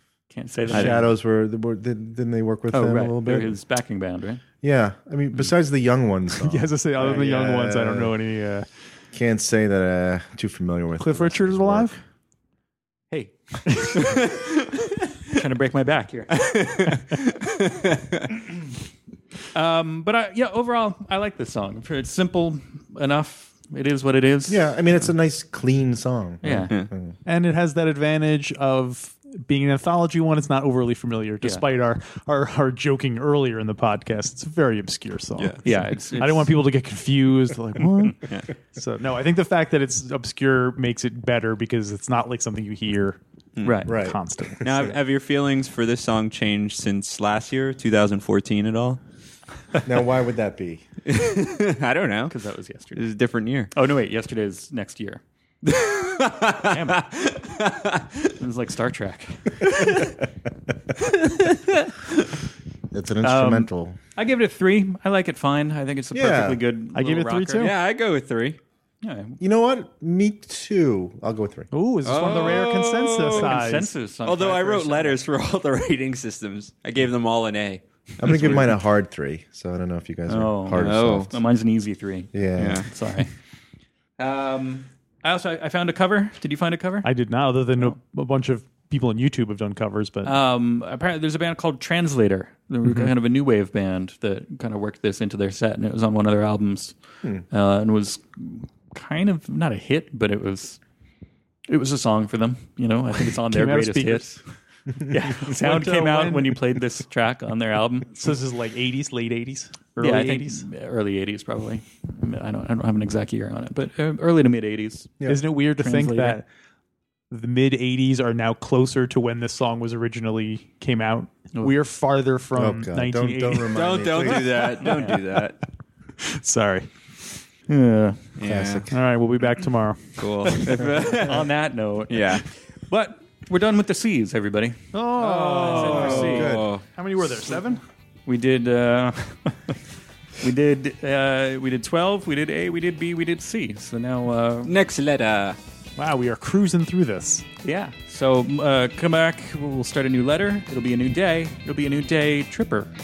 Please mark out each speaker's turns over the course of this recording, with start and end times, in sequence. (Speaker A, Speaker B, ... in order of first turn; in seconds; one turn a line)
Speaker A: 0.3-1.1
Speaker B: 0.7-3.5
Speaker A: 2.7-4.4
Speaker B: 4.6-8.2
Speaker C: 6.3-8.7
Speaker B: 9.1-11.9
Speaker C: 11.0-12.0
Speaker A: 13.1-14.2
Speaker A: 15.3-17.1
Speaker D: 16.4-18.2
Speaker A: 19.5-24.6
Speaker B: 24.5-27.1
Speaker A: 26.4-26.7
Speaker C: 27.2-43.2
Speaker D: 35.4-36.1
Speaker A: 35.6-36.7
Speaker A: 37.8-38.2
Speaker D: 43.5-44.0
Speaker A: 43.6-44.0
Speaker C: 43.8-45.0
Speaker B: 43.9-44.2
Speaker D: 44.6-49.0
Speaker B: 49.8-50.8
Speaker D: 51.1-52.3
Speaker A: 52.3-53.0
Speaker D: 52.9-53.7
Speaker A: 53.7-55.2
Speaker D: 55.6-58.1
Speaker A: 56.6-57.1
Speaker A: 58.4-59.6
Speaker D: 61.3-61.9
Speaker B: 62.9-64.0
Speaker A: 63.2-67.7
Speaker B: 66.1-66.6
Speaker C: 66.9-67.7
Speaker D: 67.6-68.6
Speaker A: 69.0-69.4
Speaker B: 69.4-71.7
Speaker C: 71.7-73.9
Speaker D: 72.0-73.6
Speaker A: 73.3-75.2
Speaker D: 74.2-78.7
Speaker B: 78.2-81.4
Speaker A: 80.3-83.3
Speaker D: 80.7-81.3
Speaker B: 82.3-82.8
Speaker D: 82.5-82.8
Speaker A: 84.2-87.1
Speaker D: 84.2-84.6
Speaker C: 87.0-90.4
Speaker A: 90.2-100.8
Speaker A: 101.7-104.4
Speaker C: 103.5-104.3
Speaker A: 105.1-108.1
Speaker C: 105.4-106.6
Speaker C: 108.1-110.7
Speaker A: 110.0-115.1
Speaker C: 115.2-116.5
Speaker A: 115.8-116.4
Speaker C: 117.3-123.7
Speaker B: 122.5-124.5
Speaker D: 123.7-125.6
Speaker C: 124.4-125.5
Speaker A: 124.8-125.2
Speaker C: 126.2-126.9
Speaker A: 127.7-128.2
Speaker D: 128.4-128.9
Speaker B: 128.4-128.9
Speaker C: 128.9-130.9
Speaker D: 130.2-131.5
Speaker A: 131.2-136.6
Speaker D: 132.1-132.4
Speaker C: 134.9-137.8
Speaker D: 135.6-136.8
Speaker B: 135.9-136.7
Speaker A: 138.2-139.8
Speaker A: 140.4-144.7
Speaker D: 144.6-145.6
Speaker C: 146.0-147.4
Speaker A: 147.6-152.9